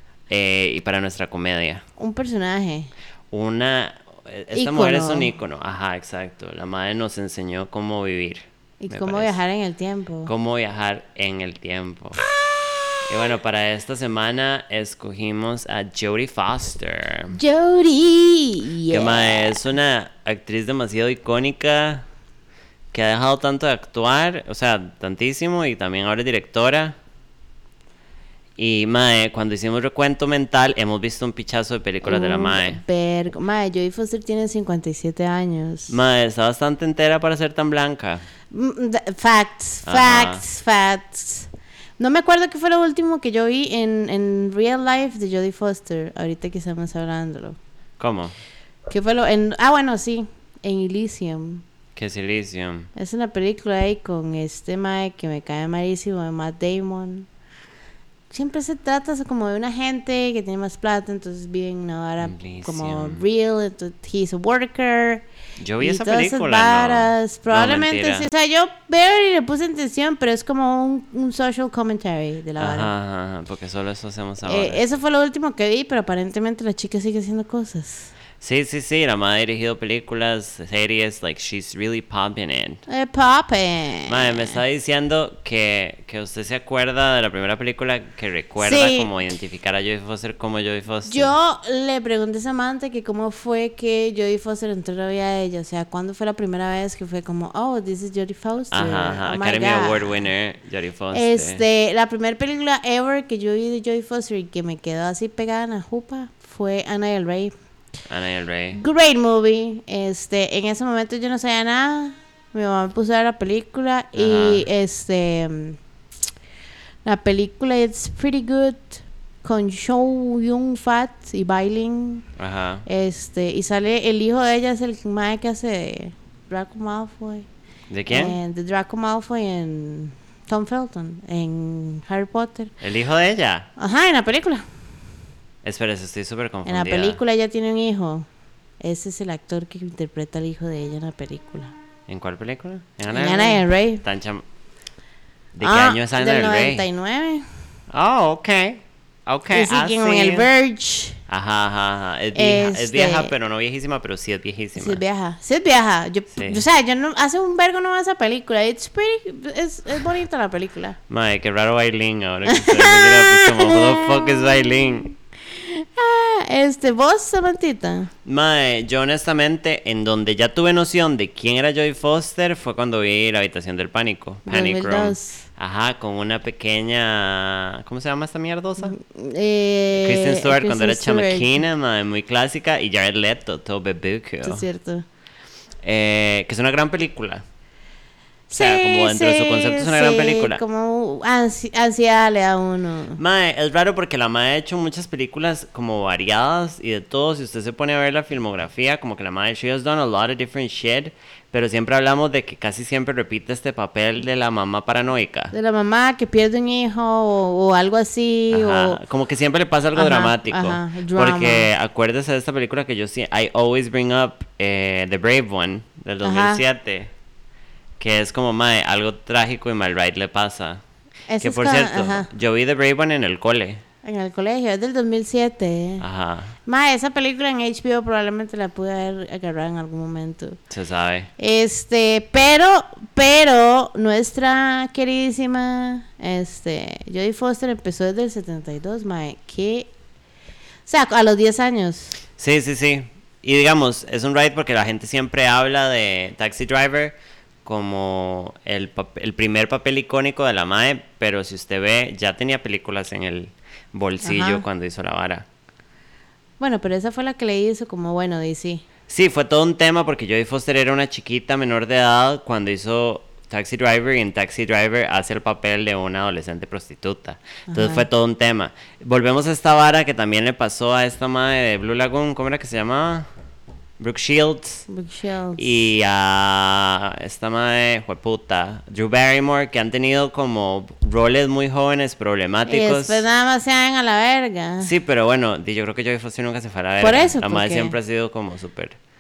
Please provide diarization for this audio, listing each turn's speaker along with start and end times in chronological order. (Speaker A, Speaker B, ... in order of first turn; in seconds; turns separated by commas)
Speaker A: 0.3-1.8, Speaker B: 2.0-2.9, Speaker A: 3.3-9.3, Speaker B: 4.5-5.3, Speaker B: 8.8-10.3, Speaker A: 10.3-12.2, Speaker A: 13.1-17.4, Speaker B: 17.3-19.6, Speaker A: 18.9-22.1, Speaker A: 22.9-27.0, Speaker A: 28.6-32.8, Speaker B: 32.0-35.9, Speaker A: 35.9-38.2, Speaker B: 38.5-47.6, Speaker A: 39.9-40.4, Speaker A: 48.0-48.4, Speaker B: 48.9-51.6, Speaker A: 52.0-52.9, Speaker B: 53.0-57.3, Speaker B: 58.3-65.2, Speaker A: 62.2-63.2, Speaker A: 65.6-68.3, Speaker B: 65.8-72.9, Speaker A: 72.6-74.8, Speaker B: 74.4-78.1, Speaker A: 78.4-82.8, Speaker B: 82.9-84.6, Speaker A: 84.1-91.3, Speaker B: 88.6-89.1, Speaker B: 91.1-100.1, Speaker A: 98.7-101.6, Speaker B: 101.1-107.5, Speaker A: 108.1-108.8, Speaker B: 108.7-115.8, Speaker A: 114.2-114.7, Speaker B: 117.0-122.2, Speaker A: 122.4-122.8, Speaker B: 122.9-127.5, Speaker A: 127.9-128.4, Speaker B: 128.1-132.7, Speaker A: 132.8-133.7, Speaker B: 133.8-134.6, Speaker A: 135.6-137.2, Speaker B: 136.7-138.2, Speaker B: 138.8-141.7, Speaker A: 142.1-144.4, Speaker B: 143.1-144.0, Speaker A: 145.5-146.8, Speaker B: 145.6-147.4, Speaker A: 147.9-150.5, Speaker B: 149.5-151.2, Speaker A: 151.3-155.0, Speaker B: 152.3-153.3, Speaker B: 154.8-161.0, Speaker A: 156.3-156.7, Speaker A: 161.1-165.1, Speaker B: 162.5-168.1, Speaker A: 168.2-178.9, Speaker B: 174.5-175.5, Speaker B: 178.8-181.6, Speaker A: 179.9-184.7, Speaker B: 184.4-185.1, Speaker A: 185.8-187.4, Speaker B: 188.5-193.2, Speaker A: 188.6-190.6, Speaker A: 193.2-205.5, Speaker B: 205.5-209.0, Speaker A: 208.5-217.1, Speaker B: 209.9-211.7, Speaker B: 216.2-216.6, Speaker A: 218.0-220.8, Speaker B: 221.3-222.3, Speaker A: 221.4-223.8, Speaker B: 224.0-226.0, Speaker A: 226.0-226.6, Speaker B: 226.7-230.6, Speaker A: 230.7-231.3, Speaker B: 231.4-239.9, Speaker B: 240.8-242.2, Speaker A: 242.4-255.5, Speaker B: 254.2-254.6, Speaker B: 256.6-258.9, Speaker A: 259.1-273.3, Speaker B: 267.7-268.1, Speaker A: 274.0-274.9, Speaker B: 274.9-275.7, Speaker A: 275.6-283.2, Speaker B: 282.7-284.9, Speaker A: 284.8-289.0, Speaker B: 287.0-288.0